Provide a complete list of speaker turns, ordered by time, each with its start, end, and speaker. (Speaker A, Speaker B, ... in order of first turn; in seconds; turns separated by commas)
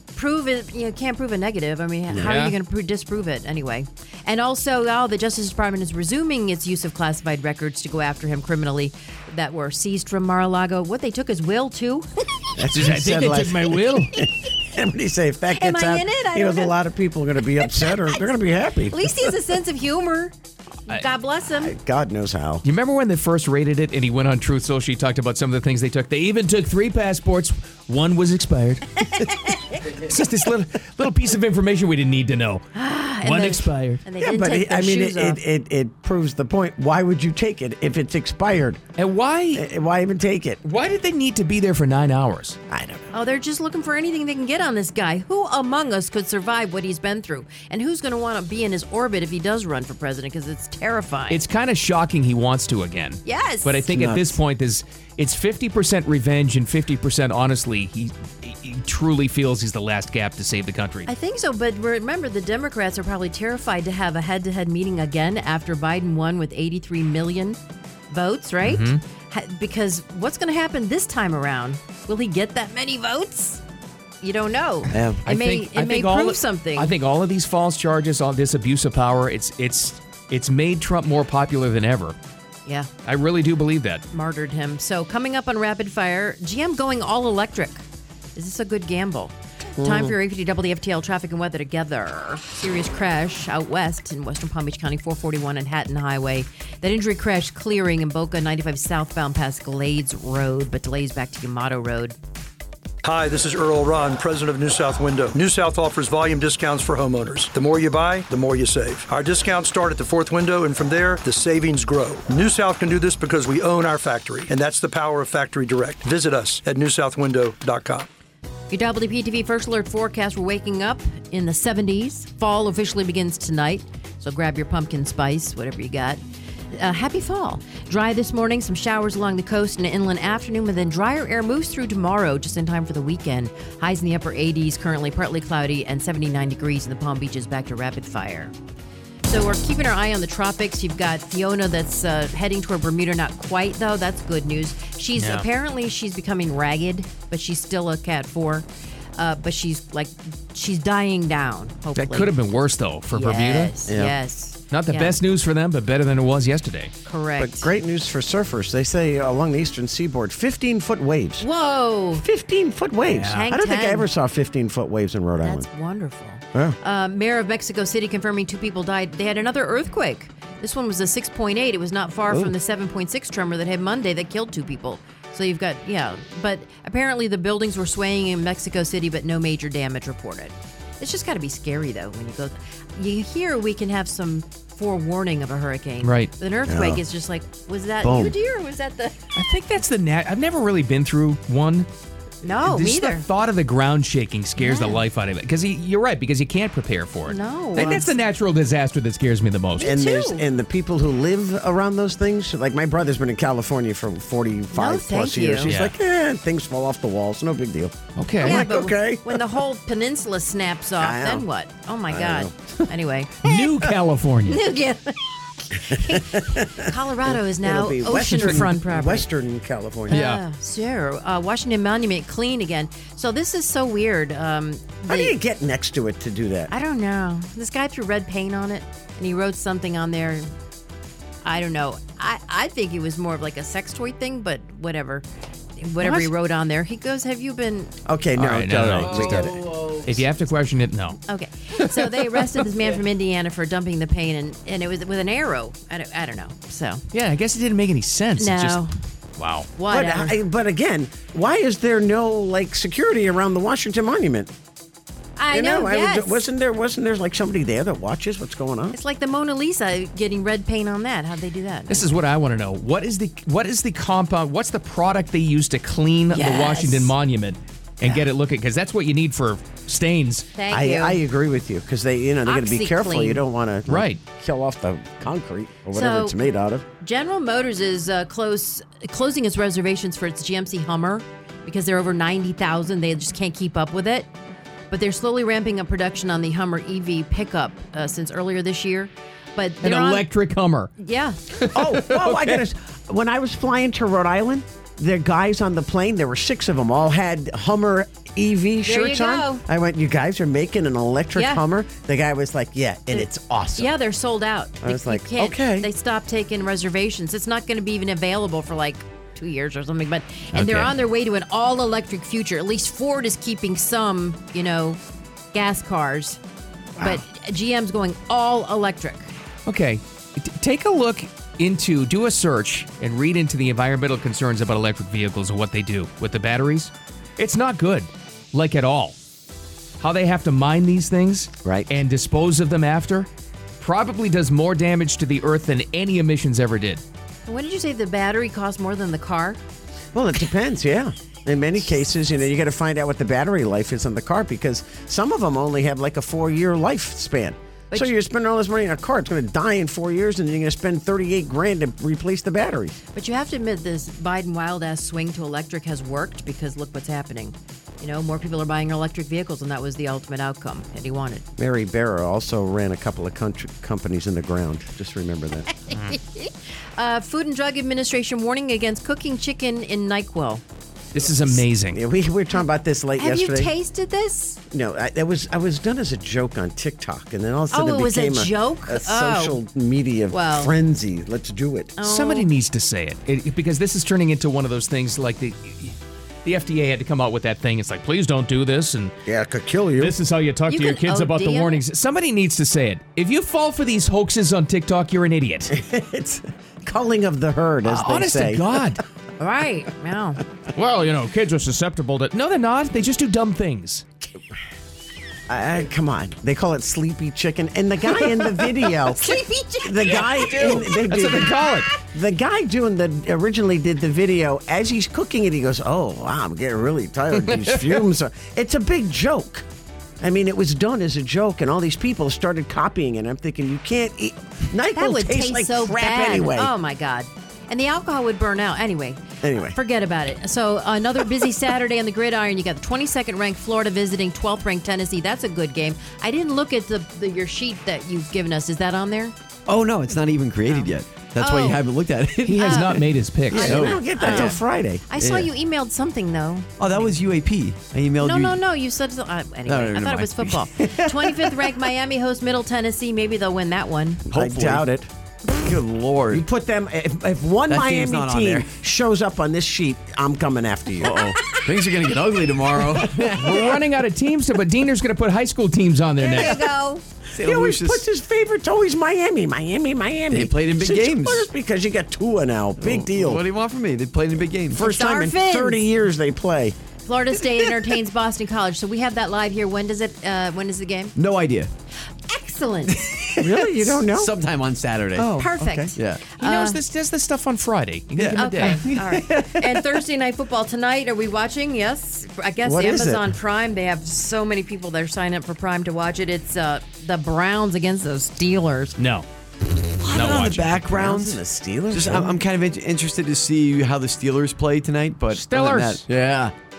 Speaker A: 0.1-12.1, Speaker B: 2.1-2.5, Speaker C: 12.6-19.3, Speaker B: 12.7-14.2, Speaker A: 15.6-16.7, Speaker A: 17.6-18.3, Speaker A: 18.9-20.3, Speaker A: 20.9-21.8, Speaker C: 21.5-22.6, Speaker B: 22.6-32.7, Speaker A: 32.8-35.4, Speaker B: 33.2-34.0, Speaker C: 34.2-38.8, Speaker B: 39.0-39.6, Speaker C: 39.5-40.6, Speaker B: 40.6-42.6, Speaker C: 42.7-43.1, Speaker A: 43.1-51.4, Speaker B: 51.3-61.1, Speaker A: 53.2-53.9, Speaker C: 53.9-54.4, Speaker A: 61.1-67.6, Speaker A: 68.1-73.6, Speaker B: 68.6-69.0, Speaker A: 74.2-76.9, Speaker B: 75.2-82.2, Speaker A: 82.7-82.9, Speaker B: 83.0-84.0, Speaker A: 84.1-87.8, Speaker A: 88.3-102.2, Speaker C: 89.8-90.2, Speaker D: 103.0-118.1, Speaker A: 118.7-126.2, Speaker A: 126.7-138.5, Speaker A: 139.2-152.4, Speaker B: 145.2-145.5, Speaker B: 151.9-153.8, Speaker A: 153.1-155.2, Speaker C: 153.9-154.2, Speaker B: 154.7-156.9, Speaker A: 157.1-157.7, Speaker C: 157.4-161.5, Speaker A: 161.4-162.2, Speaker C: 162.2-165.7, Speaker B: 163.1-163.5, Speaker A: 163.3-164.1, Speaker A: 165.4-189.3, Speaker B: 186.0-186.3, Speaker C: 186.7-187.0, Speaker C: 188.0-188.3, Speaker B: 189.3-191.9, Speaker A: 192.4-193.2, Speaker B: 192.6-199.9, Speaker A: 194.6-195.0, Speaker A: 197.3-198.2, Speaker A: 199.8-200.4, Speaker C: 199.8-209.4, Speaker A: 204.7-205.7, Speaker B: 205.7-205.9, Speaker B: 208.2-208.6, Speaker A: 208.4-213.7, Speaker C: 211.0-211.4, Speaker C: 212.1-212.5, Speaker B: 213.4-214.6, Speaker A: 214.5-219.3, Speaker C: 215.9-220.3, Speaker B: 218.2-218.6, Speaker B: 220.1-220.4, Speaker A: 220.1-225.3, Speaker C: 225.0-226.7, Speaker A: 226.7-230.5, Speaker A: 231.4-235.3, Speaker A: 235.8-237.9, Speaker B: 236.0-236.3, Speaker C: 238.1-239.6, Speaker B: 238.4-241.2, Speaker A: 241.3-247.0, Speaker B: 247.1-248.8, Speaker A: 248.4-248.9, Speaker B: 249.4-249.7, Speaker A: 249.8-250.4, Speaker C: 249.9-254.5, Speaker A: 255.4-256.4, Speaker C: 255.5-258.9, Speaker A: 258.9-262.1, Speaker B: 261.9-270.5, Speaker A: 266.3-267.1, Speaker C: 268.0-268.3, Speaker A: 270.6-271.2, Speaker C: 270.7-276.8, Speaker A: 272.4-273.4, Speaker B: 273.9-274.2, Speaker A: 275.9-276.4, Speaker A: 277.0-284.3, Speaker A: 284.9-290.3, Speaker B: 289.8-290.9, Speaker A: 291.0-291.4, Speaker B: 291.6-292.6, Speaker C: 291.7-303.9, Speaker A: 298.8-299.6, Speaker A: 301.3-301.6, Speaker A: 303.1-315.0, Speaker C: 304.8-305.9, Speaker B: 310.5-310.9, Speaker A: 315.5-316.4, Speaker A: 317.0-319.3, Speaker B: 319.7-329.2, Speaker B: 330.0-333.3, Speaker C: 331.6-331.9, Speaker B: 333.8-337.0, Speaker A: 337.4-339.6, Speaker C: 340.1-352.9, Speaker A: 353.1-361.4, Speaker C: 361.6-365.7, Speaker A: 365.7-370.6, Speaker B: 371.1-372.0, Speaker C: 371.5-373.7, Speaker A: 373.2-374.6, Speaker C: 374.7-381.9, Speaker A: 377.7-379.6, Speaker A: 380.3-380.7, Speaker A: 382.0-382.5, Speaker B: 382.0-389.1, Speaker C: 389.3-390.1, Speaker B: 390.0-395.8, Speaker A: 390.7-391.8, Speaker C: 395.7-398.6, Speaker B: 397.8-399.0, Speaker A: 399.4-400.4, Speaker B: 400.7-404.0, Speaker C: 405.5-419.7, Speaker A: 409.1-410.9, Speaker B: 410.0-411.9, Speaker C: 420.2-426.7, Speaker A: 424.9-439.3, Speaker C: 429.4-429.8, Speaker E: 439.7-443.0, Speaker A: 440.7-441.8, Speaker B: 442.4-443.8, Speaker A: 442.6-447.1, Speaker E: 443.5-444.5, Speaker C: 443.5-445.1, Speaker E: 445.1-445.5, Speaker E: 446.8-448.6, Speaker A: 448.2-454.2, Speaker E: 449.7-451.3, Speaker E: 454.3-454.9, Speaker C: 454.3-455.1, Speaker E: 455.6-456.4, Speaker C: 456.3-461.3, Speaker E: 457.7-458.7, Speaker E: 461.0-463.7, Speaker B: 463.3-466.7, Speaker A: 466.2-467.0, Speaker E: 467.3-468.1, Speaker C: 467.4-473.4, Speaker E: 470.3-471.5, Speaker E: 472.8-474.8, Speaker C: 474.7-476.8, Speaker A: 474.8-475.8, Speaker A: 477.0-481.1, Speaker E: 481.2-481.7, Speaker A: 482.3-483.1, Speaker E: 482.9-485.3, Speaker C: 483.4-484.3, Speaker B: 485.2-485.6, Speaker A: 485.4-486.8, Speaker C: 485.5-485.9, Speaker E: 485.9-486.2, Speaker B: 486.4-488.8, Speaker E: 488.2-490.0, Speaker A: 488.4-499.0, Speaker C: 492.6-493.3, Speaker B: 499.0-499.3, Speaker E: 500.1-501.4, Speaker C: 500.1-502.4, Speaker B: 500.1-500.7, Speaker E: 501.9-506.5, Speaker B: 505.3-506.1